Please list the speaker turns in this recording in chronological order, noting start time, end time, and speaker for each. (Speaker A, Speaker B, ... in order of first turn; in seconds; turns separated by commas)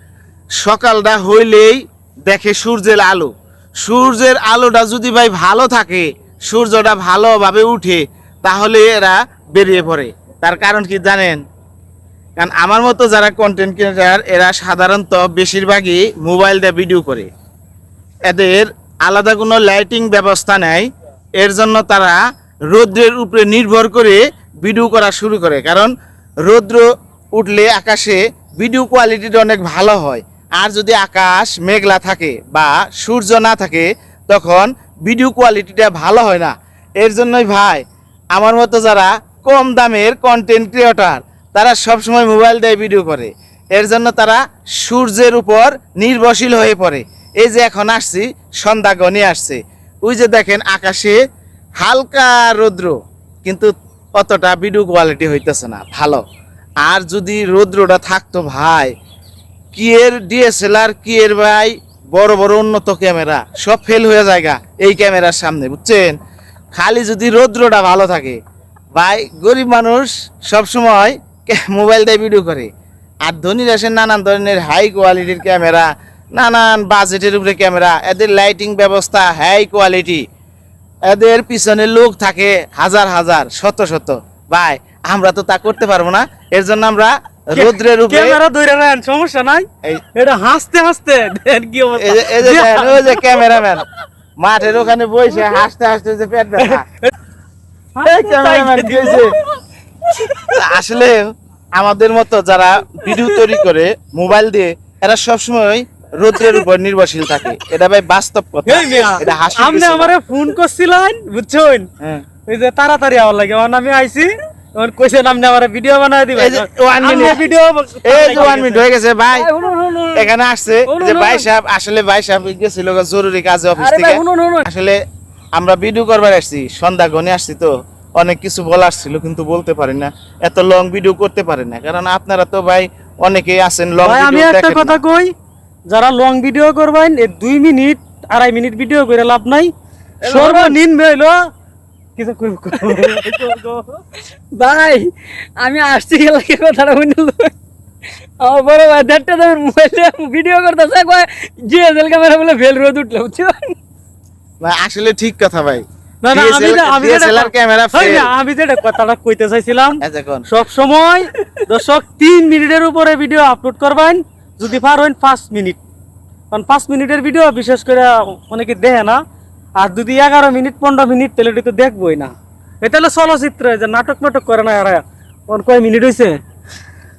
Speaker A: 0.6-11.4, Speaker A: 12.4-17.3, Speaker A: 18.3-20.9, Speaker A: 21.4-22.2, Speaker A: 22.7-25.9, Speaker A: 26.5-51.2, Speaker A: 51.8-56.2, Speaker A: 56.8-58.9, Speaker A: 59.7-66.2, Speaker A: 66.7-68.4, Speaker A: 69.0-72.7, Speaker A: 73.2-80.2, Speaker A: 81.1-88.4, Speaker B: 87.5-93.3, Speaker A: 92.0-93.8, Speaker A: 94.4-96.8, Speaker B: 96.6-97.1, Speaker B: 98.0-99.2, Speaker A: 98.0-99.3, Speaker A: 100.5-110.1, Speaker B: 103.1-103.4, Speaker B: 108.7-111.9, Speaker B: 112.5-118.8, Speaker A: 116.3-117.4, Speaker A: 118.0-119.5, Speaker C: 119.3-120.3, Speaker A: 120.2-125.0, Speaker B: 120.9-121.5, Speaker C: 123.8-124.7, Speaker A: 125.6-135.0, Speaker B: 134.0-135.3, Speaker B: 135.9-139.7, Speaker C: 140.2-140.8, Speaker B: 140.2-141.3, Speaker B: 142.2-143.9, Speaker C: 142.7-143.7, Speaker C: 144.6-147.5, Speaker C: 148.4-153.7, Speaker A: 154.6-158.3, Speaker B: 156.2-165.8, Speaker A: 160.0-160.5, Speaker B: 166.5-169.2, Speaker B: 169.8-176.4